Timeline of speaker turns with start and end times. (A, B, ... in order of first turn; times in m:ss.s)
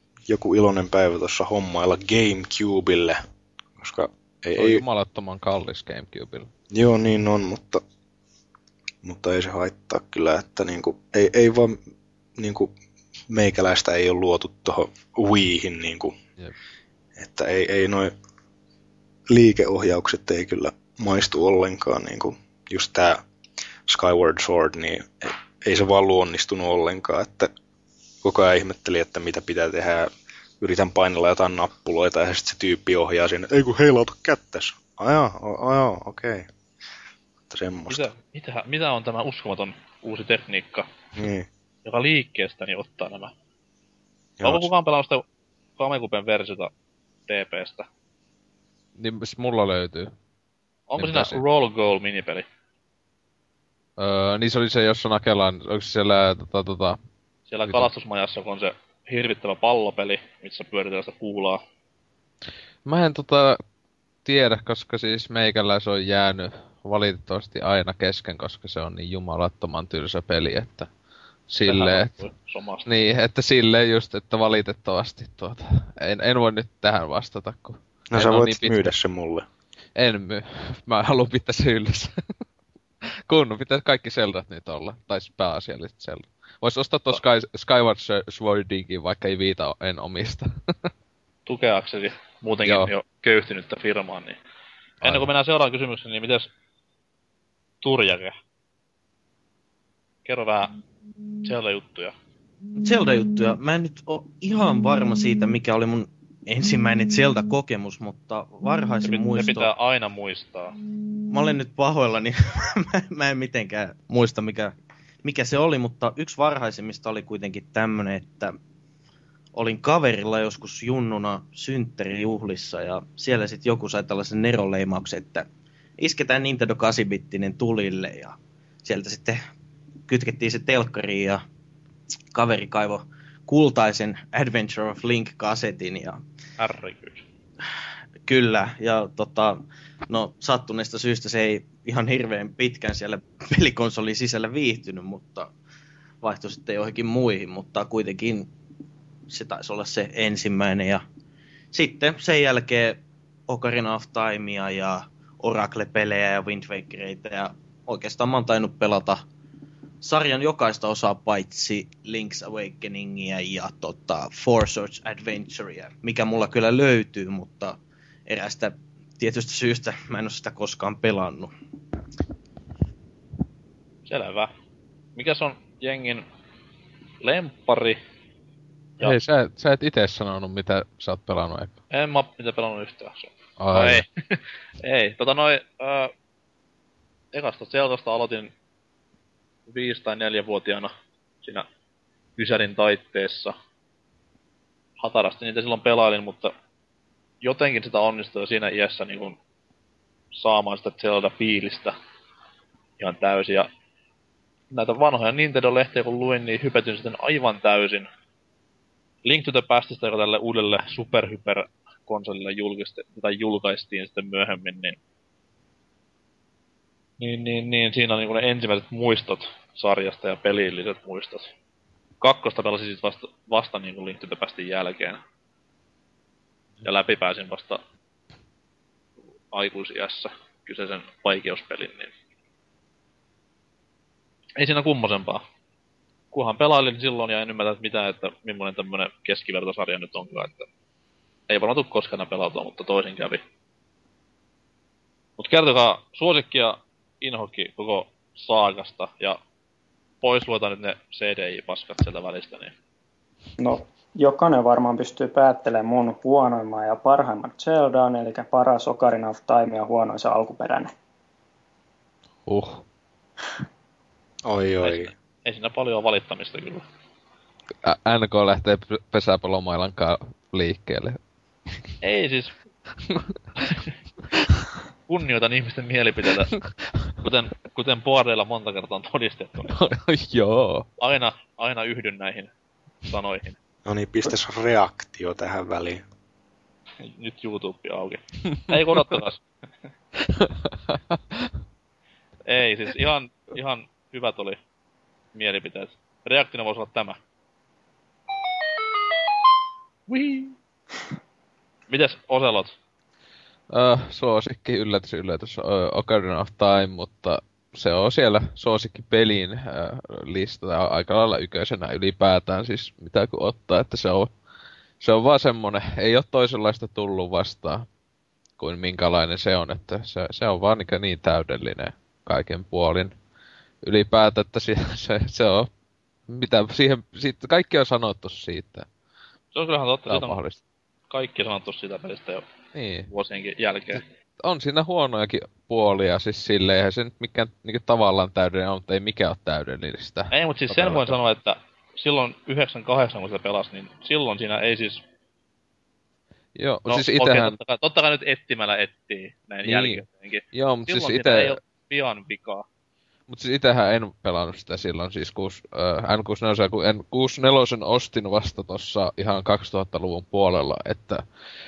0:00.3-0:03.2 A
0:03.8-0:04.8 A
0:04.6-0:06.5 B
0:06.7-0:07.8 A
0:09.0-0:11.8 A
0:12.4-0:12.7 A
0:13.3-0:16.1 A
0:17.2-0:18.1 A
0:19.3-0:23.2 A
0:23.9-0:27.5 A
0:28.2-0:36.5 A
0:37.5-0:38.1 A
0:37.9-0:40.9 C
0:41.2-0:41.5 A
0:41.8-0:43.3 C
0:44.4-0:44.7 A
0:44.4-0:45.2 C
0:45.8-0:46.7 C
0:47.3-0:47.9 C
0:49.0-0:50.1 B
0:50.9-0:52.4 C
0:51.0-0:51.4 B
0:54.0-0:57.0 B
0:57.5-1:01.6 C
1:02.8-1:03.6 B
1:04.2-1:10.9 B
1:11.5-1:12.1 B
1:11.7-1:12.9 C
1:12.9-1:18.8 B
1:18.1-1:19.5 A
1:20.0-1:22.2 B
1:23.3-1:30.9 B
1:31.5-1:34.4 C
1:32.6-1:32.9 B
1:35.0-1:35.3 B
1:35.0-1:36.5 C
1:37.8-1:38.4 C
1:40.2-1:40.7 C
1:41.4-1:42.1 C
1:42.8-1:49.7 D
1:49.0-1:50.8 C
1:51.3-1:58.6 D
1:59.6-2:05.5 D
2:06.0-2:09.4 D
2:10.1-2:11.4 D
2:12.3-2:16.2 D
2:16.6-2:17.2 C
2:18.3-2:25.5 D
2:26.2-2:28.5 D
2:29.3-2:31.0 D
2:31.7-2:39.2 D
2:40.0-2:47.8 D
2:48.3-2:51.5 D
2:54.1-2:54.5 C
2:55.2-2:56.3 C
2:57.2-2:58.0 C
2:59.0-3:01.7 B
3:01.9-3:06.1 C
3:03.6-3:04.0 B
3:07.3-3:08.5 C
3:09.7-3:10.9 C
3:12.4-3:13.6 C
3:15.0-3:16.5 C
3:17.4-3:19.4 C
3:20.3-3:22.0 C
3:23.0-3:23.7 C
3:24.7-3:28.1 C
3:29.2-3:35.0 C
3:37.2-3:41.5 C
3:42.2-3:45.2 C
3:46.8-3:47.8 C
3:49.5-3:52.1 C
3:54.6-3:55.4 C
3:56.3-4:00.7 C
4:01.5-4:03.4 C
4:05.4-4:09.4 C
4:10.2-4:12.7 C
4:13.6-4:20.9 E
4:22.5-4:22.8 B
4:24.4-4:25.1 A
4:24.8-4:26.8 C
4:27.8-4:31.2 B
4:32.0-4:32.5 C
4:33.1-4:33.3 B
4:35.1-4:36.5 C
4:36.5-4:37.1 B
4:37.2-4:39.8 C
4:39.7-4:40.9 B
4:41.0-4:42.5 C
4:43.1-4:43.6 C
4:43.8-4:46.0 A
4:47.0-4:49.4 C
4:50.4-4:51.4 B
4:52.5-4:54.6 C
4:55.4-4:57.2 C
5:00.1-5:00.6 C
5:01.9-5:02.7 C
5:03.7-5:14.3 B
5:15.0-5:17.9 B
5:18.6-5:23.1 B
5:23.8-5:25.7 B
5:26.3-5:28.9 B
5:29.5-5:30.4 C
5:30.1-5:30.6 B
5:31.1-5:32.4 C
5:32.8-5:33.1 B
5:33.1-5:34.0 C
5:34.4-5:41.2 B
5:40.3-5:45.0 C
5:46.6-5:47.6 B
5:46.9-5:52.6 C
5:49.6-5:51.6 B
5:53.3-6:01.2 B